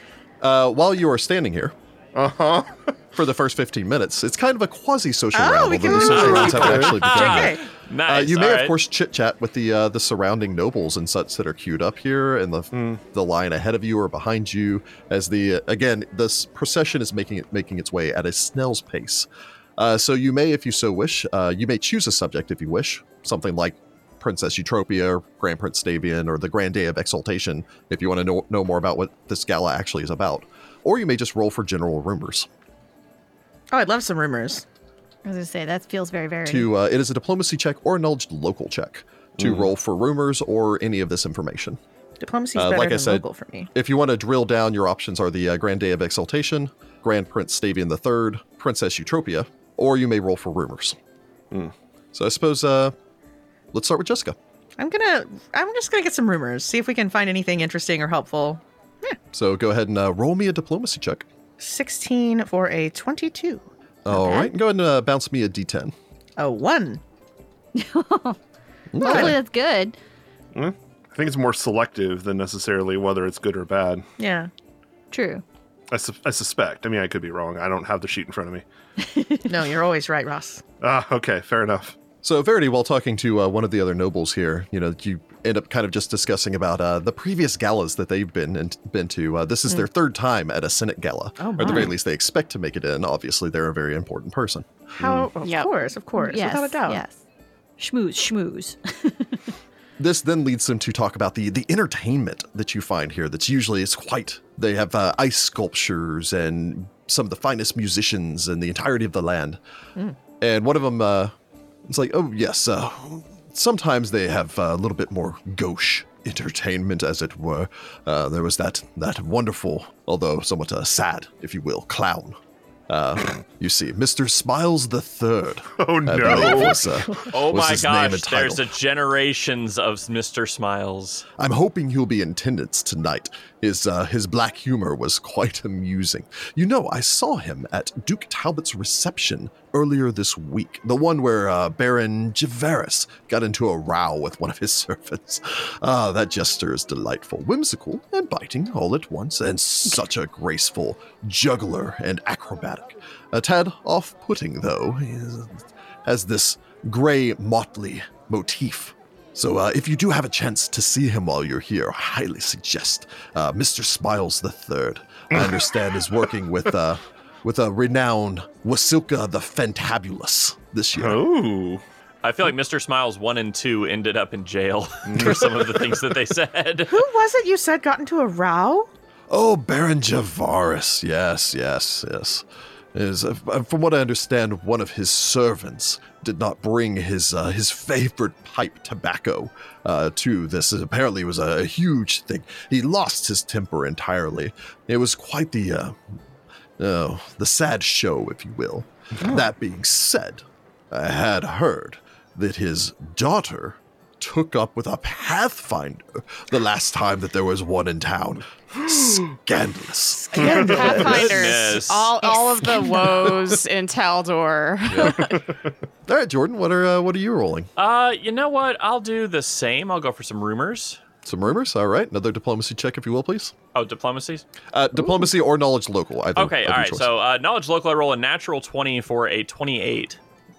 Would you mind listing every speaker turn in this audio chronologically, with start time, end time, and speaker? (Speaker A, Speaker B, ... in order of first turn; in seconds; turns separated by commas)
Speaker A: 0.4-1.7, Speaker B: 2.1-3.0, Speaker A: 3.1-32.5, Speaker C: 5.3-7.6, Speaker D: 5.9-8.7, Speaker B: 6.5-6.9, Speaker B: 12.7-13.0, Speaker C: 33.7-34.6, Speaker E: 35.2-36.7, Speaker A: 36.4-41.8, Speaker B: 39.4-39.7, Speaker C: 42.2-43.7, Speaker A: 42.5-51.0, Speaker A: 52.1-52.9, Speaker A: 53.7-54.4, Speaker C: 54.8-59.2, Speaker A: 59.3-61.2, Speaker C: 61.6-63.6, Speaker A: 64.1-65.9, Speaker E: 64.1-64.5, Speaker C: 66.4-67.0, Speaker E: 67.7-68.4, Speaker A: 68.9-69.4, Speaker E: 69.0-70.0, Speaker C: 69.0-69.3, Speaker B: 70.5-74.0, Speaker C: 74.2-74.5, Speaker E: 75.1-75.4, Speaker B: 75.9-78.6, Speaker E: 79.0-79.5, Speaker C: 79.5-80.6, Speaker B: 80.8-82.0, Speaker A: 82.2-95.1, Speaker C: 91.4-91.9, Speaker C: 95.0-97.0, Speaker B: 95.0-95.3, Speaker F: 95.4-95.7, Speaker E: 96.2-97.2, Speaker E: 97.8-99.5, Speaker A: 100.0-109.6, Speaker A: 110.4-111.3, Speaker A: 111.9-122.4, Speaker A: 122.9-128.7, Speaker B: 125.8-127.2, Speaker D: 127.1-131.3, Speaker A: 131.4-171.2, Speaker B: 165.3-165.6, Speaker B: 170.9-171.8, Speaker D: 172.2-177.0, Speaker B: 175.0-176.0, Speaker C: 176.9-178.9, Speaker A: 179.3-196.0, Speaker A: 196.8-210.9, Speaker F: 210.3-215.4, Speaker B: 210.4-210.9, Speaker D: 210.6-212.2, Speaker C: 210.8-211.2, Speaker A: 214.9-215.3, Speaker B: 215.1-215.6, Speaker A: 216.1-217.7, Speaker D: 217.8-221.0, Speaker A: 221.2-223.5, Speaker D: 223.7-224.4, Speaker A: 224.7-227.1, Speaker D: 226.3-230.2